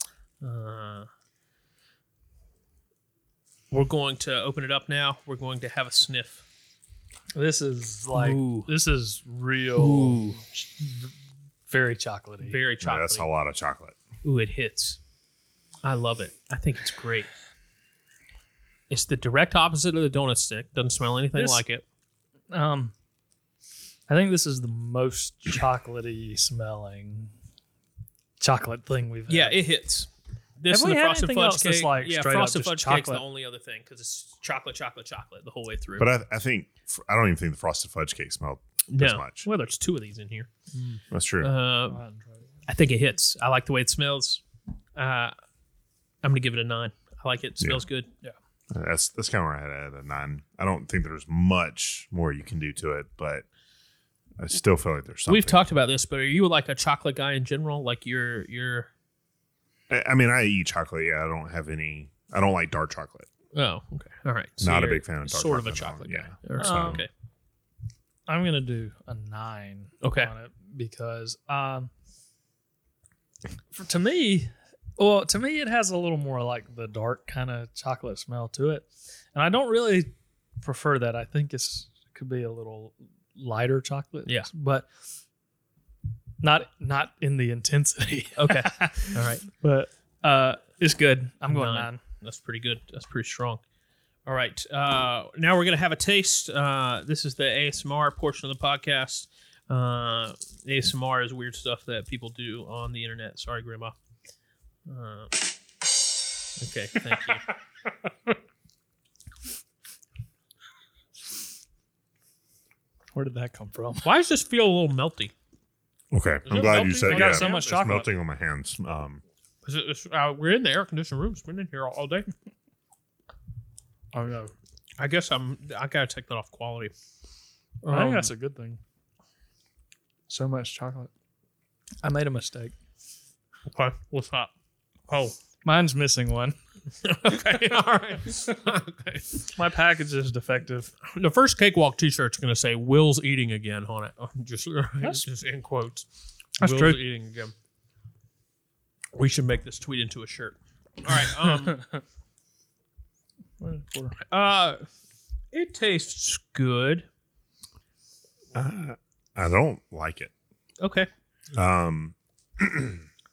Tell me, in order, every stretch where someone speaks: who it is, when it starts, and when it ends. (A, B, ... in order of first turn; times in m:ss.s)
0:00.4-0:01.1 A
0:03.7-0:06.4 A
0:07.3-0:11.1 B
0:08.1-0:08.7 A
0:09.8-0:10.4 A
0:11.7-0:12.6 B
0:12.4-0:13.3 A
0:12.8-0:14.0 C
0:14.2-0:15.0 A
0:15.8-0:17.3 A
0:18.9-0:21.8 A
0:21.3-0:21.6 B
0:22.5-0:22.9 B
0:24.1-0:27.3 B
0:28.4-0:29.6 B
0:29.3-0:36.1 A
0:30.7-0:33.2 B
0:36.0-0:39.5 C
0:38.9-0:40.5 A
0:40.7-0:41.0 B
0:41.1-0:41.5 C
0:41.4-0:42.0 A
0:41.9-0:42.5 B
0:42.7-0:44.4 A
0:45.0-0:45.3 A
0:46.2-0:48.1 A
0:47.6-0:47.8 C
0:48.7-0:53.4 C
0:54.4-0:55.6 C
0:55.3-0:58.9 A
0:59.9-1:03.3 C
1:03.5-1:07.1 A
1:04.6-1:07.0 C
1:06.6-1:07.0 B
1:08.3-1:11.9 B
1:10.0-1:10.3 A
1:13.7-1:24.9 B
1:26.4-1:32.0 B
1:28.4-1:29.4 A
1:31.5-1:33.6 A
1:34.2-1:43.9 A
1:44.8-1:45.4 A
1:46.6-1:47.4 A
1:53.1-1:54.1 B
1:54.0-1:55.3 A
1:56.1-1:59.2 C
1:56.4-1:57.6 A
1:56.8-1:58.1 B
1:59.6-2:02.3 A
2:04.1-2:04.5 B
2:05.0-2:06.9 A
2:07.8-2:08.3 A
2:07.9-2:08.8 B
2:10.3-2:11.1 B
2:12.0-2:12.7 B
2:13.7-2:14.5 A
2:15.1-2:15.4 A
2:15.6-2:16.6 B
2:17.0-2:19.5 A
2:19.5-2:21.0 B
2:21.0-2:26.1 A
2:26.6-2:27.0 B
2:26.6-2:27.5 A
2:29.1-2:31.8 A
2:31.4-2:31.8 B
2:33.6-2:34.2 B
2:34.2-2:34.8 A
2:35.5-2:37.1 A
2:38.5-2:40.3 C
2:40.8-2:41.1 A
2:41.5-2:43.0 C